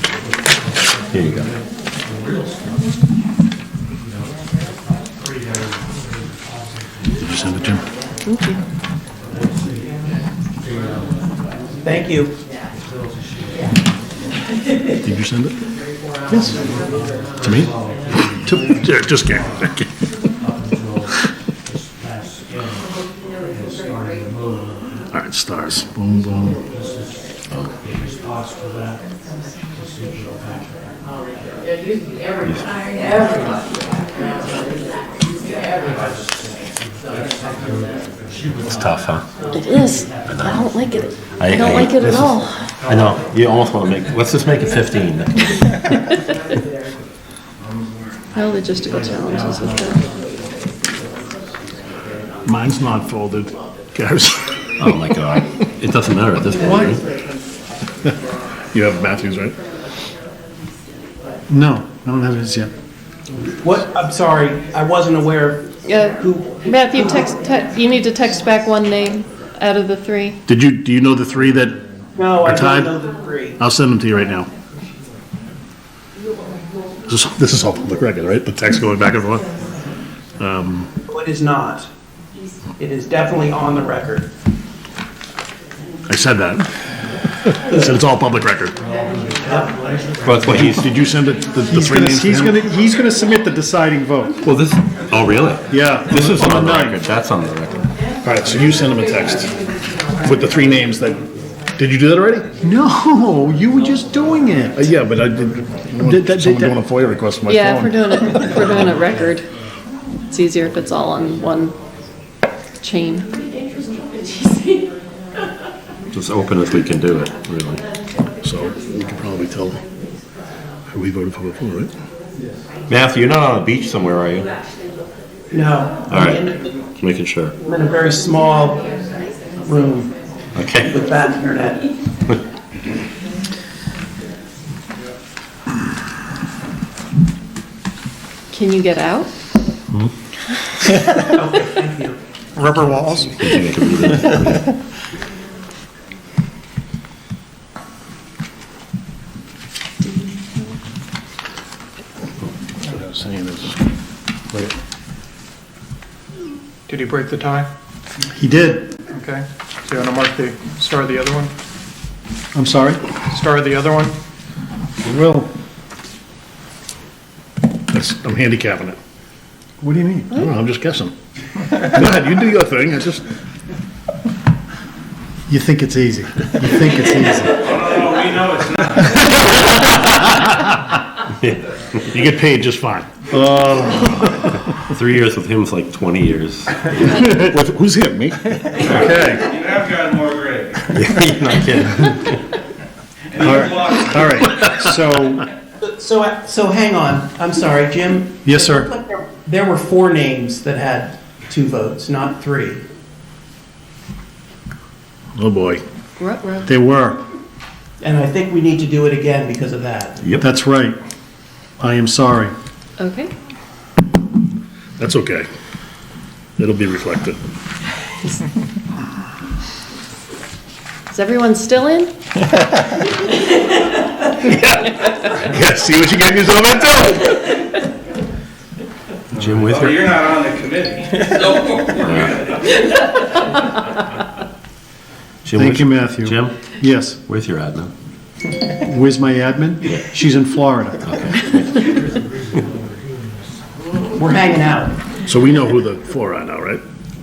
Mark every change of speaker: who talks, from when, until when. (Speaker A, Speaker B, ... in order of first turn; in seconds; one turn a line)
Speaker A: 1.1-1.5
Speaker B: 7.2-7.8
Speaker C: 8.2-8.6
Speaker D: 11.8-12.3
Speaker B: 15.0-15.6
Speaker B: 17.4-17.7
Speaker B: 18.4-19.9
Speaker B: 25.1-26.6
Speaker A: 38.6-39.2
Speaker C: 39.5-42.5
Speaker A: 40.3-40.7
Speaker A: 41.4-45.8
Speaker C: 48.3-50.0
Speaker B: 52.4-55.0
Speaker A: 54.8-57.0
Speaker E: 56.6-56.9
Speaker B: 58.7-59.6
Speaker E: 61.5-62.7
Speaker D: 63.6-67.2
Speaker C: 65.8-70.4
Speaker B: 70.5-71.8
Speaker D: 72.2-73.6
Speaker B: 72.4-72.9
Speaker B: 73.6-74.5
Speaker B: 77.1-79.5
Speaker B: 80.4-80.9
Speaker D: 81.1-81.9
Speaker D: 82.8-84.3
Speaker B: 86.1-86.7
Speaker B: 87.5-88.7
Speaker A: 90.2-90.9
Speaker B: 90.5-92.6
Speaker E: 91.7-94.3
Speaker A: 94.4-97.8
Speaker E: 95.7-97.0
Speaker B: 98.2-99.5
Speaker B: 100.2-101.2
Speaker B: 101.8-102.5
Speaker E: 102.6-104.9
Speaker B: 104.8-108.5
Speaker E: 106.0-106.7
Speaker C: 107.5-109.4
Speaker C: 110.3-111.7
Speaker C: 112.8-114.8
Speaker A: 116.1-117.8
Speaker B: 118.4-119.8
Speaker B: 120.9-121.9
Speaker A: 122.9-124.5
Speaker D: 125.5-126.6
Speaker A: 126.1-127.5
Speaker D: 127.7-128.8
Speaker D: 129.6-130.1
Speaker A: 130.5-130.9
Speaker D: 130.8-131.8
Speaker C: 138.5-139.3
Speaker D: 141.2-143.2
Speaker F: 142.5-143.4
Speaker A: 143.3-144.7
Speaker C: 150.0-150.7
Speaker B: 152.8-153.8
Speaker F: 156.9-157.7
Speaker E: 158.3-159.0
Speaker F: 159.1-161.5
Speaker E: 162.5-163.1
Speaker F: 163.3-164.1
Speaker E: 165.0-165.5
Speaker B: 167.9-169.0
Speaker E: 169.8-170.4
Speaker B: 170.3-171.1
Speaker B: 171.7-173.2
Speaker E: 175.5-177.8
Speaker G: 177.6-179.2
Speaker A: 181.4-182.0
Speaker B: 182.1-184.6
Speaker A: 184.9-187.2
Speaker B: 187.1-189.1
Speaker G: 188.8-190.8
Speaker E: 188.9-189.5
Speaker A: 190.9-192.4
Speaker G: 193.3-194.3
Speaker E: 193.3-195.5
Speaker D: 195.8-202.8
Speaker E: 198.4-198.9
Speaker B: 205.3-205.8
Speaker C: 206.2-206.7
Speaker E: 206.7-207.2
Speaker D: 208.0-210.3
Speaker E: 210.4-210.9
Speaker E: 211.8-212.5
Speaker C: 213.0-213.3
Speaker B: 215.0-215.5
Speaker B: 216.6-217.4
Speaker C: 221.1-222.1
Speaker B: 224.4-227.5
Speaker A: 229.3-230.2
Speaker G: 229.8-232.6
Speaker A: 231.9-232.5
Speaker A: 235.4-236.7
Speaker E: 235.5-237.2
Speaker A: 237.2-237.9
Speaker E: 238.8-241.0
Speaker A: 241.0-241.9
Speaker D: 244.2-244.9
Speaker B: 245.2-246.8